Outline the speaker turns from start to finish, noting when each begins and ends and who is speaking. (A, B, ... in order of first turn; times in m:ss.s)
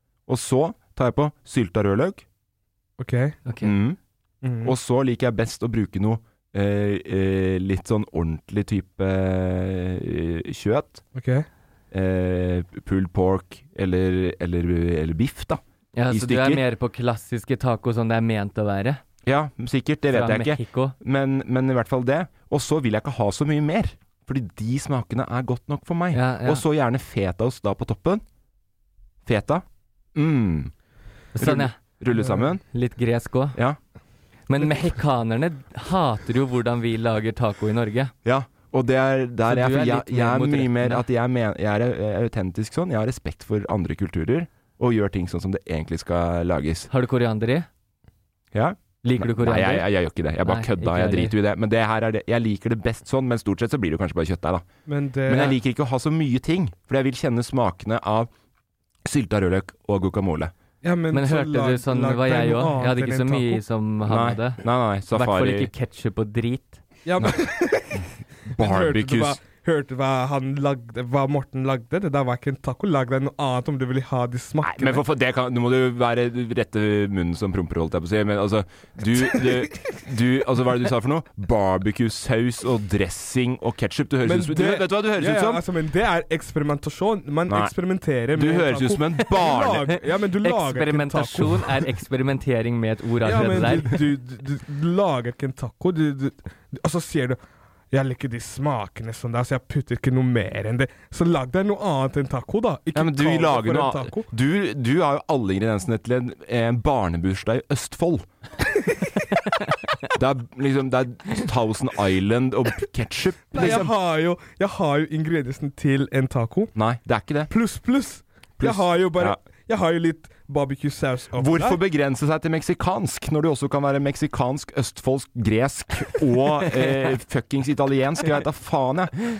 0:00.3-0:02.2 A
0:03.0-0:03.4 B
0:03.4-0:03.8 C
0:03.6-0:04.0 A
0:04.4-0:04.7 B
0:04.6-0:11.0 A
0:11.1-0:11.4 B
0:11.9-0:16.6 A
0:15.9-0:19.0 C
0:19.2-0:28.2 A
0:20.1-0:20.9 C
0:26.1-0:26.6 C
0:29.2-0:30.7 A
0:31.4-0:32.0 C
0:31.4-0:32.6 A
0:32.7-0:33.6 C
0:34.5-0:38.1 C
0:38.2-0:46.9 A
0:39.5-0:41.0 C
0:46.9-0:47.7 C
0:48.5-0:54.6 A
0:49.0-0:49.9 C
0:50.4-0:51.3 C
0:54.9-0:55.5 B
0:55.3-0:58.3 A
0:59.0-1:00.5 A
1:00.8-1:03.6 B
1:01.1-1:06.8 C
1:04.0-1:05.7 A
1:07.0-1:08.0 B
1:08.5-1:09.4 A
1:08.6-1:15.0 B
1:14.6-1:25.6 A
1:24.2-1:31.8 B
1:27.5-1:27.7 A
1:28.3-1:30.0 A
1:30.4-1:34.0 C
1:33.2-1:37.4 B
1:37.9-1:44.3 B
1:42.9-1:48.3 A
1:50.1-1:53.9 A
1:53.5-1:56.7 B
1:56.7-1:57.5 A
1:57.5-2:01.8 B
1:58.6-1:59.4 A
2:01.3-2:09.1 A